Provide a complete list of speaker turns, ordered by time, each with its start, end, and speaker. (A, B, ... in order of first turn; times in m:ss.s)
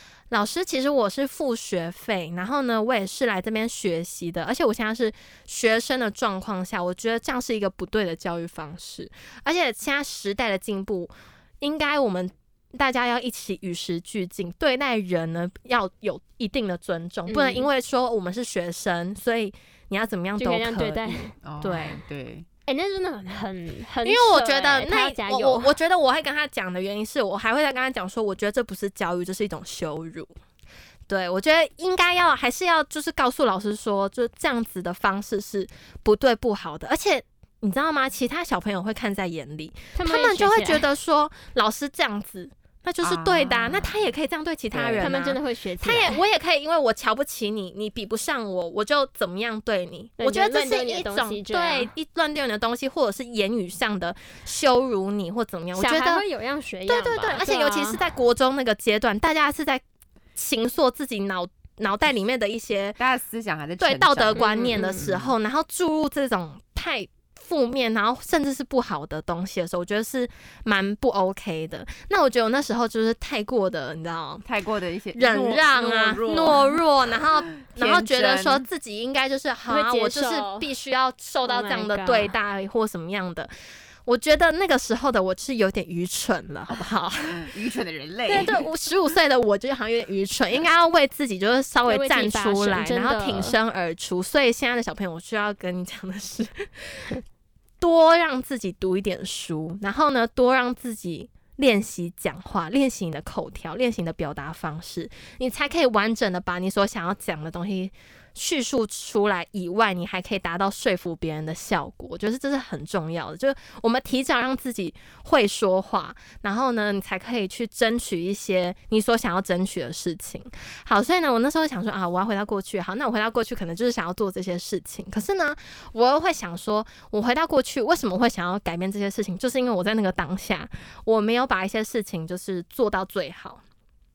0:00.3-0:22.0 A
0:17.3-0:17.7 B
0:20.4-0:21.3 B
0:21.4-0:22.4 C
0:22.7-0:25.7 B
0:24.0-0:30.3 A
0:31.1-0:56.2 A
0:40.0-0:40.8 B
0:43.0-0:44.1 C
0:44.7-0:45.1 C
0:45.0-0:46.2 B
0:50.2-0:51.9 B
0:55.7-0:58.0 B
0:56.9-0:59.8 A
1:00.4-1:03.0 A
1:03.0-1:05.3 C
1:03.8-1:14.4 A
1:04.4-1:05.0 B
1:14.4-1:16.8 C
1:15.1-1:23.5 A
1:17.6-1:18.6 C
1:19.7-1:20.7 B
1:21.4-1:22.3 B
1:24.0-1:27.5 A
1:27.2-1:28.6 C
1:28.3-1:37.2 A
1:31.9-1:33.6 B
1:37.8-2:13.6 A